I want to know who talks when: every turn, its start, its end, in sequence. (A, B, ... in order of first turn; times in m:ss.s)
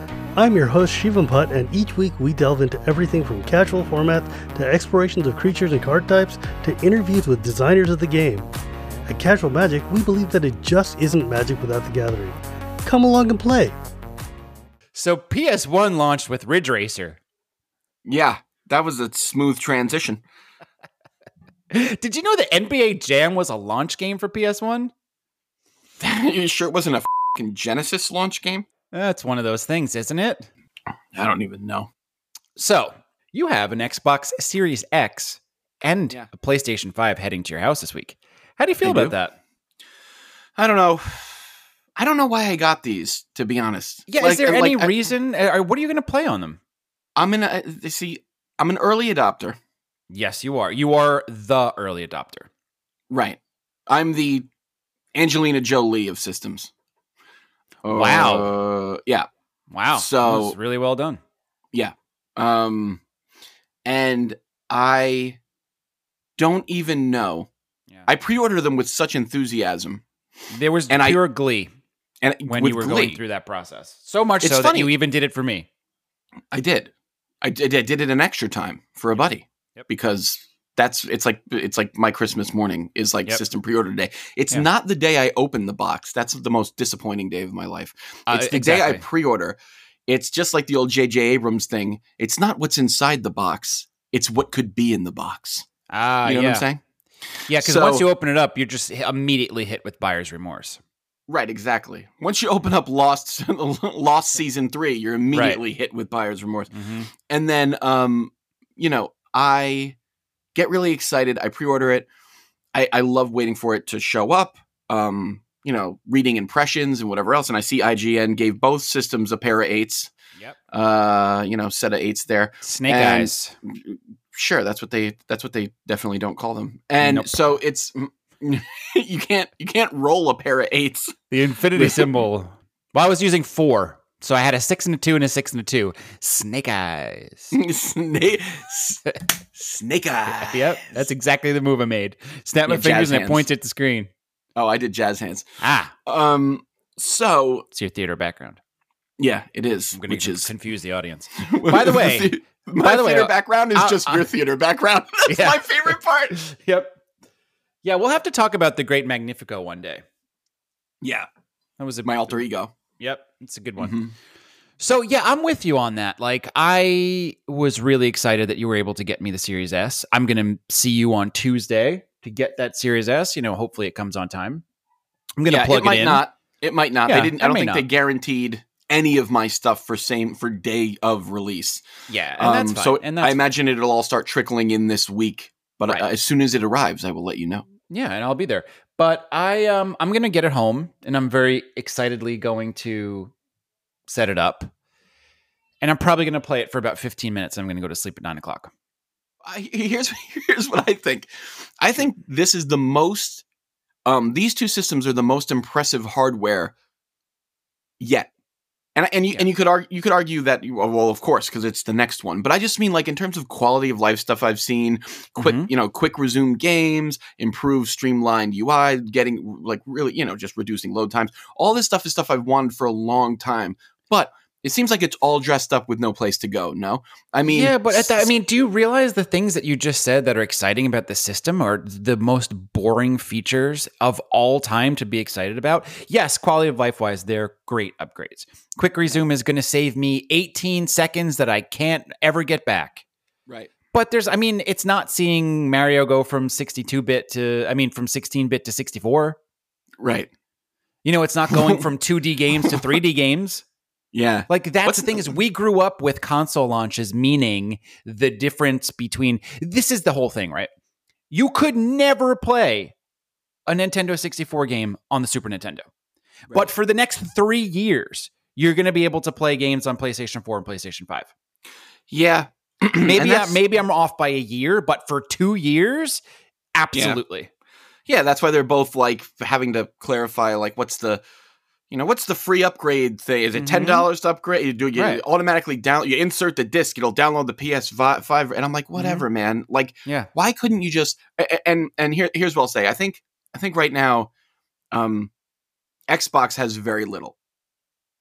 0:00.4-0:08.5 A
0:09.1-0:13.7 A
0:14.9-0:17.2 B
0:18.0-0:20.2 C
0:21.7-0:24.9 B
0:26.0-0:28.7 C
0:28.9-0:30.5 B
0:31.1-0:31.9 C
0:32.6-0:39.3 B
0:38.8-0:39.1 C
0:40.6-0:41.4 C
0:42.0-0:45.0 C
0:44.1-0:46.6 B
0:47.2-0:49.6 C
0:50.1-0:52.5 B
0:53.1-0:54.5 C
0:55.1-0:56.7 C
0:57.8-0:59.3 C
0:57.9-0:58.5 B
0:59.7-1:01.2 B
0:59.9-1:00.6 C
1:01.7-1:03.0 C
1:03.8-1:05.4 C
1:06.4-1:07.5 C
1:08.0-1:10.0 C
1:10.5-1:11.7 B
1:10.9-1:11.2 C
1:12.2-1:13.2 C
1:12.4-1:15.7 B
1:14.4-1:14.9 C
1:16.5-1:35.6 C
1:28.3-1:29.0 B
1:35.9-1:36.7 B
1:36.2-1:36.8 C
1:37.5-1:38.0 C
1:37.5-1:40.8 B
1:41.3-1:50.0 C
1:45.3-1:45.6 B
1:46.7-1:47.1 B
1:50.5-1:52.1 C
1:52.7-2:00.1 C
2:00.7-2:11.2 C
2:02.6-2:03.5 B
2:07.0-2:07.6 B
2:11.3-2:17.6 B
2:11.7-2:12.2 C
2:17.5-2:19.0 C
2:19.5-2:21.0 C
2:20.3-2:24.1 B
2:22.6-2:23.5 C
2:24.5-2:25.4 C
2:25.6-2:25.9 B
2:26.0-2:27.6 C
2:27.7-2:28.6 B
2:29.2-2:30.5 C
2:29.9-2:34.3 B
2:31.4-2:36.4 C
2:35.3-2:37.0 B
2:37.8-2:40.0 B
2:41.0-2:41.3 C
2:41.8-2:42.4 B
2:42.0-2:42.7 C
2:43.0-2:44.0 B
2:43.8-2:44.1 C
2:44.8-2:54.6 B
2:55.4-2:56.2 B
2:55.5-3:01.8 C
2:57.0-2:57.9 B
3:02.1-3:03.4 B
3:02.4-3:07.6 C
3:07.9-3:13.3 B
3:14.1-3:14.7 B
3:15.8-3:18.7 B
3:19.4-3:23.4 C
3:24.0-3:26.7 C
3:28.0-3:28.3 C
3:28.9-3:48.3 C
3:35.4-3:35.7 B
3:47.4-4:03.0 B
4:03.9-4:09.4 B
4:10.0-4:10.3 C
4:11.0-4:13.6 B
4:11.5-4:11.8 C
4:14.1-4:15.4 C
4:14.5-4:20.7 B
4:21.3-4:22.9 B
4:23.7-4:25.8 B
4:26.5-4:31.3 B
4:32.1-4:33.6 C
4:33.0-4:36.2 B
4:36.7-4:37.5 B
4:36.9-4:37.2 C
4:38.1-4:41.2 C
4:41.9-4:54.3 C
4:43.6-4:44.1 B
4:45.0-4:45.2 B
4:49.0-4:49.2 B
4:54.9-4:55.3 C
4:56.1-4:57.3 C